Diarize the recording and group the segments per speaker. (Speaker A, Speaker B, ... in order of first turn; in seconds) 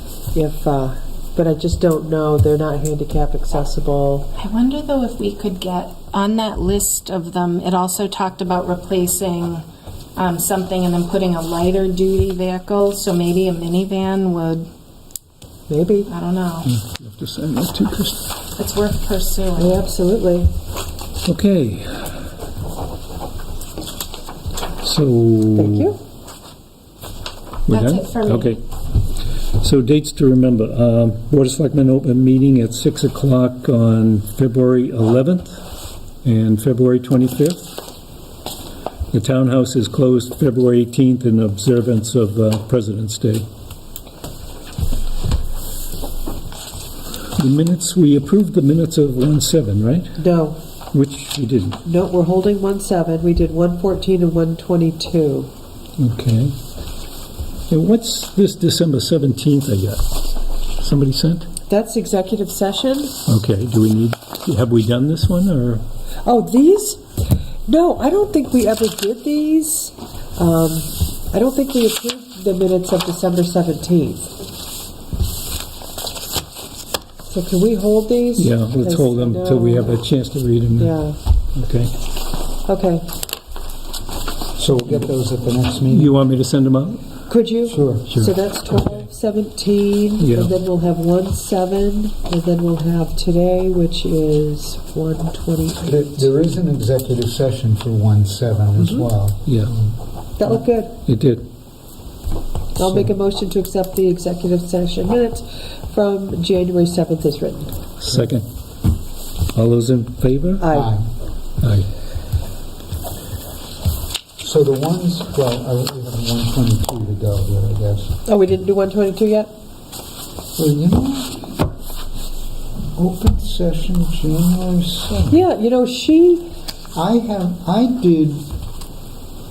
Speaker A: 0.3-4.3, 15.7-16.1, 19.6-20.5, 25.6-26.0, 50.2-50.6, 51.8-55.5, 61.7-63.1, 66.2-74.3, 77.3-80.0, 80.8-81.2, 82.7-83.1, 87.3-96.3, 98.8-99.0, 100.4-101.0, 102.8-107.7, 110.6-110.9, 118.2-119.5, 125.3-126.5
Speaker B: 4.4-9.6, 10.2-14.7, 16.1-16.7, 18.6-19.8, 27.7-28.6
Speaker C: 16.6-18.3, 21.2-22.2, 24.8-25.9, 27.7-28.6, 29.6-35.6, 36.2-37.8, 39.1-43.5, 47.4-50.2, 50.9-51.8, 56.0-56.5, 57.7-60.2, 60.8-61.5, 63.2-65.8, 78.4-81.0, 81.5-81.9, 85.9-87.0, 88.1-88.3, 90.2-90.5, 99.5-99.7, 101.0-101.4, 108.0-108.4, 109.5-110.7, 111.6-111.9
Speaker D: 84.5-86.1, 87.7-88.2, 95.8-99.9, 110.7-111.0, 114.4-118.1, 120.6-121.5, 123.0-125.4, 126.9-128.4